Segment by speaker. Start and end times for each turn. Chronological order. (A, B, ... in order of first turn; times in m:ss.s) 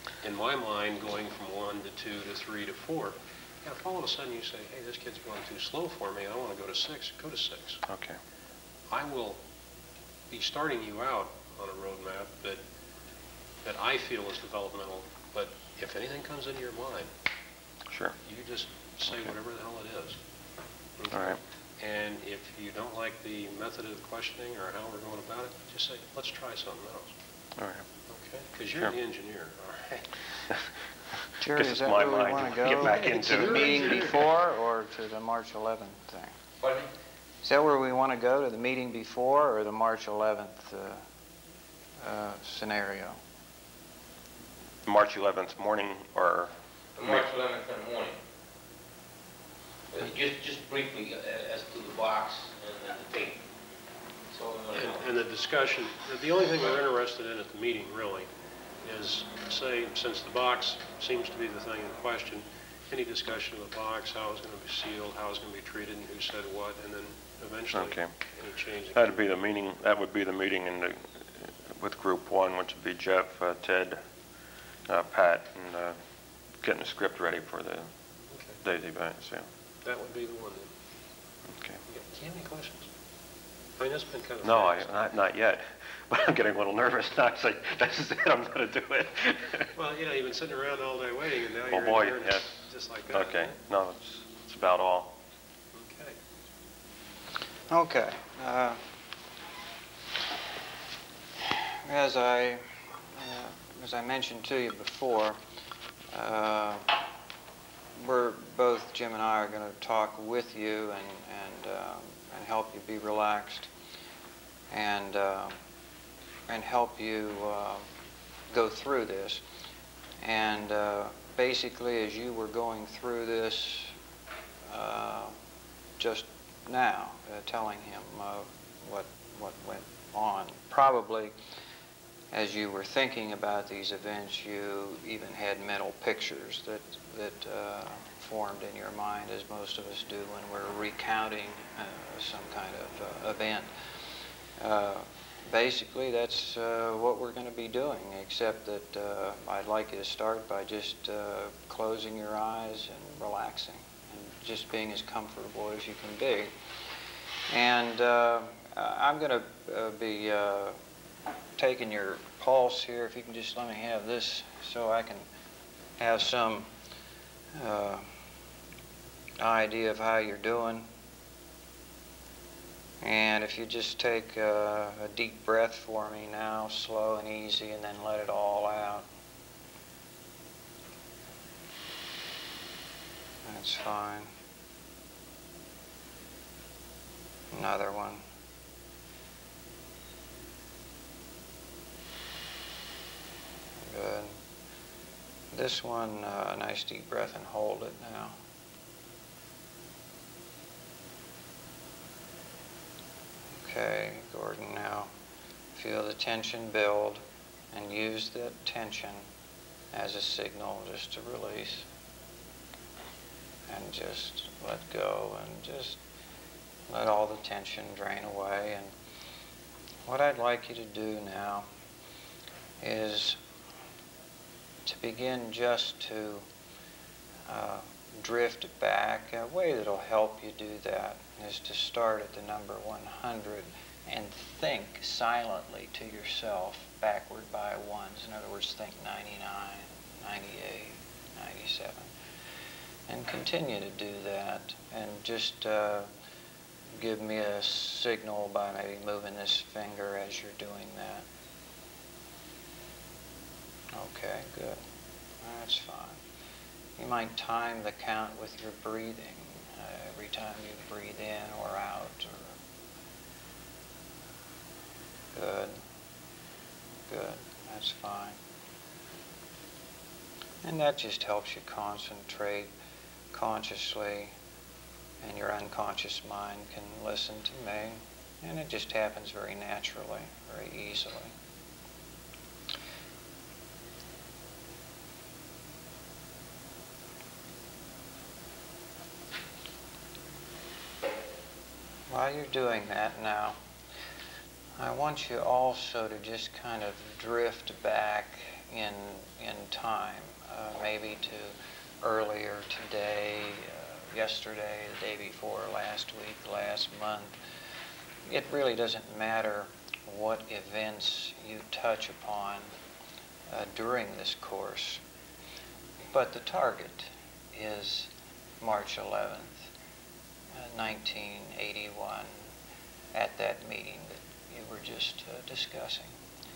0:00.2-0:07.8 A
0:07.9-0:08.2 B
0:08.9-0:09.4 A
0:10.3-0:12.6 A
0:13.6-0:17.1 A
0:17.9-0:18.2 B
0:18.2-0:20.2 A
0:21.0-0:27.1 A
0:21.1-0:21.4 B
0:27.6-0:27.8 B
0:28.1-0:30.4 A
0:31.4-0:36.3 C
0:31.5-0:33.9 B
0:32.6-0:34.3 A
0:36.6-0:36.9 D
0:37.4-0:41.0 C
0:42.0-0:43.2 C
0:44.8-0:47.2 B
0:47.0-0:48.1 D
0:49.9-0:53.4 D
0:54.3-0:55.0 D
0:54.7-0:58.3 A
0:58.8-1:09.2 A
1:07.8-1:08.1 B
1:08.9-1:14.0 B
1:14.9-1:16.0 B
1:16.6-1:17.9 B
1:18.3-1:18.6 A
1:18.6-1:19.5 B
1:19.8-1:20.7 A
1:21.9-1:22.9 A
1:23.8-1:24.9 A
1:24.4-1:29.7 B
1:29.7-1:33.6 A
1:31.7-1:32.5 B
1:33.1-1:35.1 B
1:35.7-1:36.2 A
1:37.7-1:38.8 C
1:41.5-1:45.4 C
1:46.1-1:47.0 C
1:47.9-1:53.7 C
1:54.7-1:55.5 C
1:56.5-1:57.8 C
1:58.5-1:59.4 C
2:00.2-2:03.9 C
2:04.7-2:05.3 C
2:06.0-2:11.3 C
2:12.3-2:36.5 C
2:37.5-2:40.8 C
2:41.6-2:45.3 C
2:46.0-2:46.7 C
2:47.5-2:48.1 C
2:49.4-2:50.9 C
2:53.0-2:59.1 C
3:03.4-3:04.3 C
3:07.5-3:08.2 C
3:13.8-3:14.4 C
3:15.5-3:18.4 C
3:23.5-3:25.1 C
3:25.7-3:29.2 C
3:29.9-3:31.8 C
3:33.7-3:36.0 C
3:36.9-3:38.9 C
3:40.0-3:41.7 C
3:42.8-3:43.4 C
3:44.8-3:46.4 C
3:47.5-4:02.1 C
4:03.1-4:06.1 C
4:07.0-4:11.2 C
4:13.9-4:14.8 C
4:15.4-4:16.2 C
4:17.0-4:22.6 C
4:25.3-4:25.8 C
4:27.1-4:28.4 C
4:30.6-4:32.7 C
4:33.3-4:34.3 C
4:35.2-4:41.3 C
4:52.1-4:53.6 C
4:54.8-5:07.4 C
5:08.2-5:12.7 C
5:13.5-5:15.0 C
5:16.1-5:19.7 C
5:20.5-5:22.3 C
5:23.1-5:26.1 C